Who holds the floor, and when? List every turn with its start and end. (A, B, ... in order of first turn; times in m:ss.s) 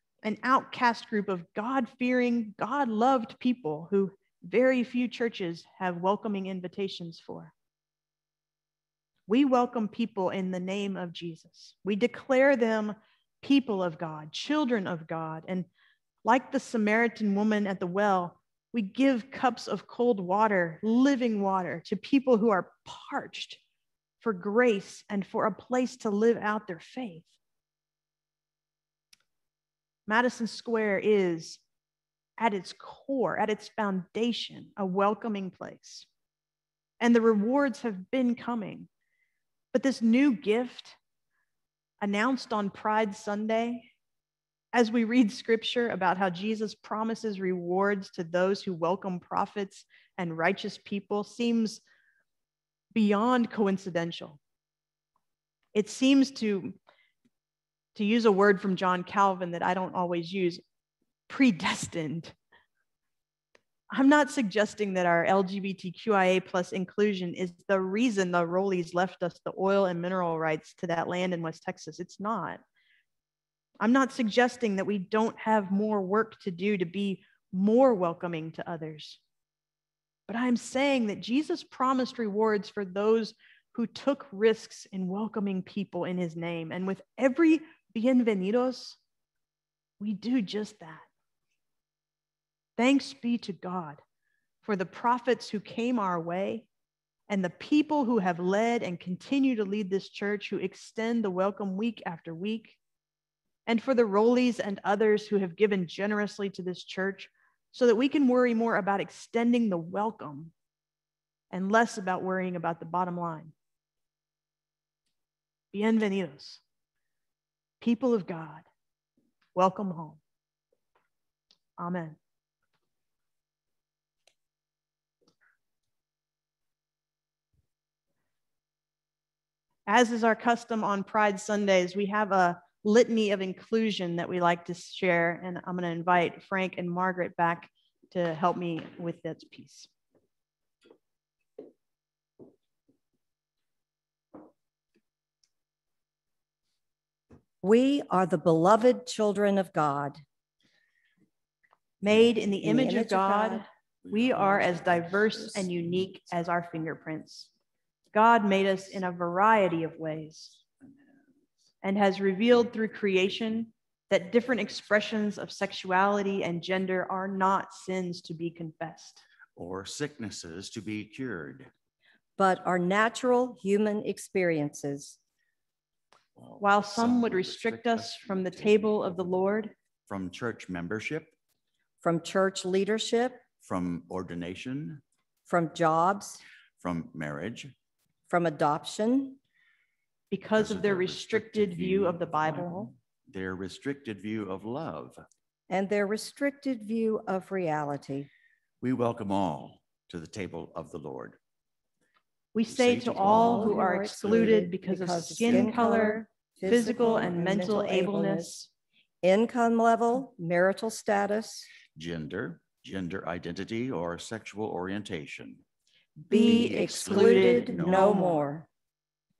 0:00.2-0:07.5 A
0:09.3-0:15.7 A
0:16.2-0:23.6 A
0:24.2-0:27.3 A
0:30.1-0:31.6 A
0:32.4-0:36.1 A
0:37.0-0:38.9 A
0:39.7-0:41.0 A
0:42.0-0:43.9 A
0:44.7-0:51.8 A
0:52.9-0:54.4 A
0:55.7-0:56.7 A
0:57.9-1:00.6 A
1:01.3-1:02.3 A
1:03.9-1:12.6 A
1:13.8-1:19.2 A
1:20.3-1:29.0 A
1:30.0-1:31.0 A
1:32.8-1:34.0 A
1:34.6-1:36.7 A
1:37.3-1:42.8 A
1:43.7-1:50.5 A
1:51.5-1:53.5 A
1:55.7-1:56.6 A
1:57.8-1:58.6 A
1:59.5-2:00.2 A
2:01.8-2:02.2 A
2:09.9-2:19.9 A
2:27.6-2:30.2 B
2:32.0-2:37.5 A
2:32.6-2:33.6 B
2:34.1-2:35.5 C
2:38.1-2:40.6 A
2:41.8-2:49.2 A
2:49.6-2:51.7 C
2:52.4-2:55.2 B
2:56.4-2:59.2 C
2:56.6-2:59.7 A
3:00.1-3:01.3 C
3:02.0-3:03.4 B
3:03.6-3:05.0 C
3:05.5-3:06.4 B
3:06.8-3:07.7 C
3:08.3-3:09.4 B
3:10.3-3:12.9 A
3:10.5-3:15.2 C
3:15.7-3:18.3 B
3:18.8-3:21.4 C
3:22.5-3:28.7 A
3:22.7-3:24.5 C
3:23.0-3:28.5 B
3:25.4-3:25.7 C
3:29.2-3:31.7 B
3:31.9-3:35.6 C
3:36.2-3:38.4 A
3:36.3-3:38.7 B
3:36.3-3:38.3 C